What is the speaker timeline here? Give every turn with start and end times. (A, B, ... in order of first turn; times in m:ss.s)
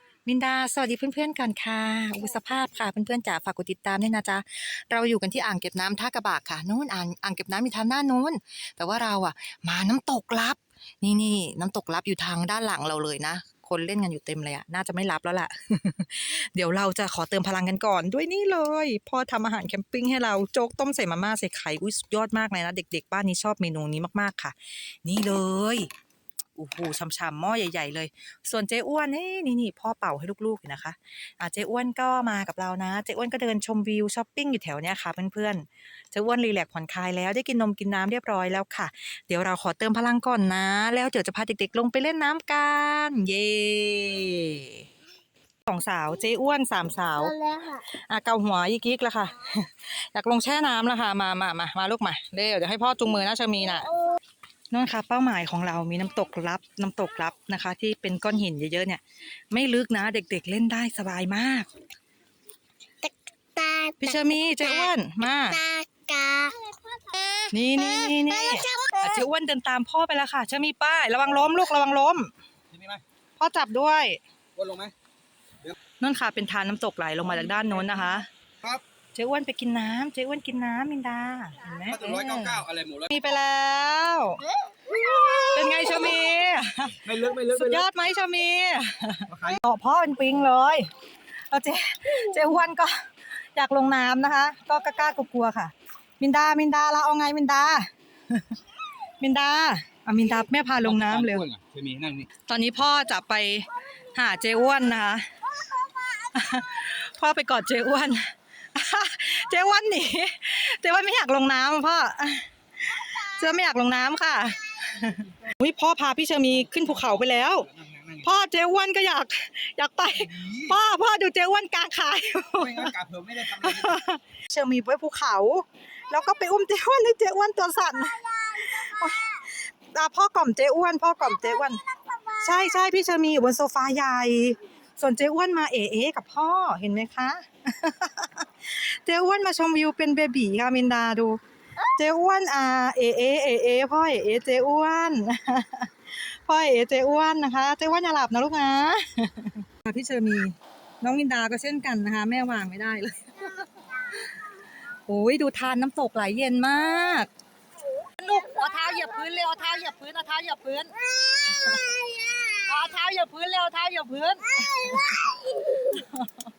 0:00.2-0:25.9 A
0:26.6-0:44.8 A
0:45.7-0:53.9 A
0:47.2-0:47.8 B
0:54.7-1:01.7 A
1:03.0-1:09.2 B
1:04.0-1:05.6 A
1:07.5-1:12.3 A
1:12.7-1:13.0 C
1:13.4-1:14.2 A
1:14.6-1:14.9 C
1:16.0-1:18.3 A
1:19.1-1:30.9 A
1:21.9-1:23.1 C
1:24.7-1:26.0 B
1:27.0-1:27.8 C
1:29.3-1:29.6 C
1:31.5-1:33.0 A
1:33.5-1:38.6 A
1:39.2-1:41.4 A
1:40.8-1:42.3 C
1:42.5-1:45.3 A
1:45.7-1:46.2 B
1:46.3-1:57.7 A
1:56.7-1:58.3 C
1:58.2-2:02.9 A
2:00.1-2:00.8 C
2:02.6-2:04.0 C
2:03.6-2:11.8 A
2:08.0-2:09.2 B
2:11.4-2:12.6 B
2:12.4-2:34.3 A
2:35.1-2:37.3 A
2:38.2-2:40.9 A
2:38.6-2:39.0 B
2:41.1-2:42.6 B
2:41.5-2:41.9 A
2:42.6-2:45.3 A
2:44.5-2:46.0 B
2:45.8-2:46.4 A